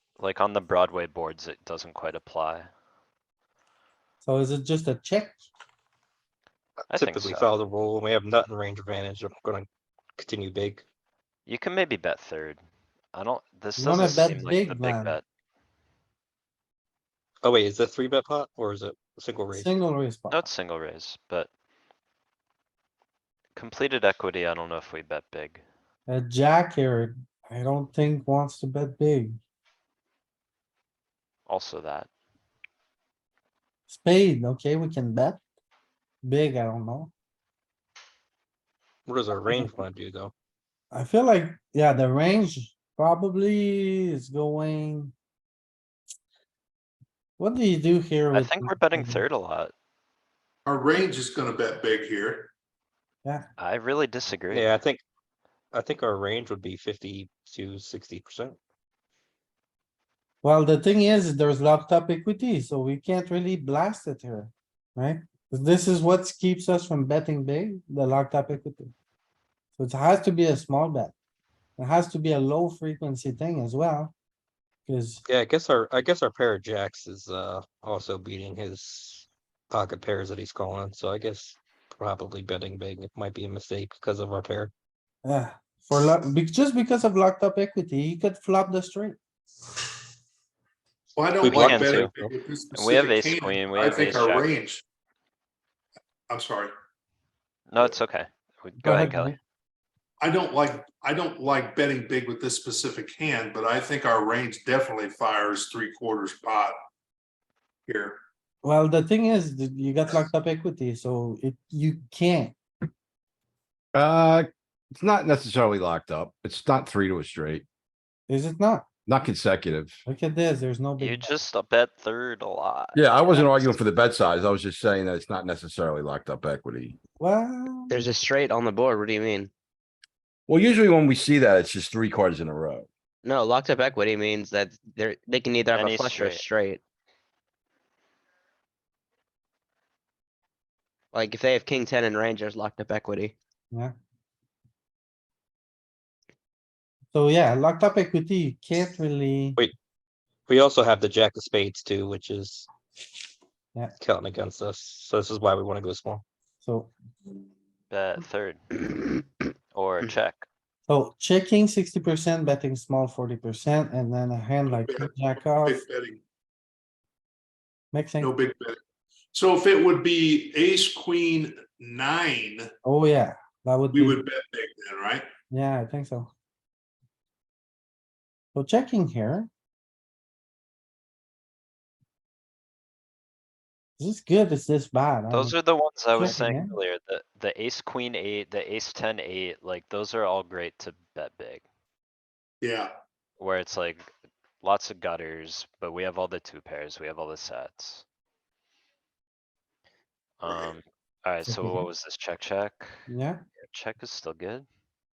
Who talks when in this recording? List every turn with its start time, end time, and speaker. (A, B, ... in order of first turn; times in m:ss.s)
0:00.2-0:02.7 A
0:04.2-0:05.4 B
0:06.9-0:10.8 C
0:06.9-0:07.5 A
0:11.5-0:12.6 A
0:13.1-0:15.2 A
0:13.8-0:15.2 B
0:17.4-0:19.8 C
0:19.5-0:20.5 B
0:20.3-0:21.5 A
0:23.5-0:25.6 A
0:26.1-0:29.4 B
0:31.5-0:32.1 A
0:33.9-0:35.4 B
0:36.2-0:37.1 B
0:39.1-0:40.3 C
0:40.9-0:45.1 B
0:47.4-0:49.2 B
0:48.3-0:49.7 A
0:50.6-0:52.5 D
0:53.6-0:54.7 A
0:54.5-0:55.0 C
0:55.7-0:58.6 C
1:00.4-1:08.9 B
1:09.8-1:11.1 B
1:11.8-1:14.1 B
1:14.9-1:15.2 B
1:15.2-1:24.7 C
1:25.2-1:29.2 B
1:31.1-1:34.8 D
1:31.4-1:32.1 C
1:31.5-1:32.1 A
1:32.7-1:34.5 A
1:36.3-1:36.7 D
1:37.7-1:39.3 A
1:38.8-1:39.4 B
1:40.2-1:46.7 D
1:47.9-1:48.2 D
1:48.6-1:52.6 B
1:53.9-1:57.6 E
1:58.3-1:58.8 B
1:59.0-2:00.0 E
2:00.0-2:01.3 B
2:01.0-2:03.8 A
2:02.9-2:07.0 E
2:07.2-2:08.0 B
2:07.9-2:09.5 F
2:10.5-2:12.9 E
2:13.2-2:16.8 F
2:15.7-2:16.4 A
2:21.1-2:23.3 F
2:27.1-2:29.6 B
2:30.5-2:32.7 C
2:34.0-2:36.2 C
2:36.6-2:36.9 B
2:37.9-2:38.7 A
2:39.7-2:40.4 A
2:40.9-2:45.8 B
2:44.7-2:46.2 D
2:47.9-2:48.3 B
2:48.2-2:48.8 D
2:49.3-2:52.7 D
2:52.8-2:54.2 B
2:53.9-2:55.3 D
2:55.5-2:56.3 B
2:58.5-2:59.5 B
3:04.0-3:05.6 B
3:05.3-3:11.6 A
3:06.1-3:06.7 B
3:12.6-3:12.9 D
3:13.4-3:14.1 A
3:14.6-3:18.0 A
3:20.4-3:23.0 A
3:21.5-3:21.8 B
3:23.1-3:23.4 B
3:23.6-3:24.6 A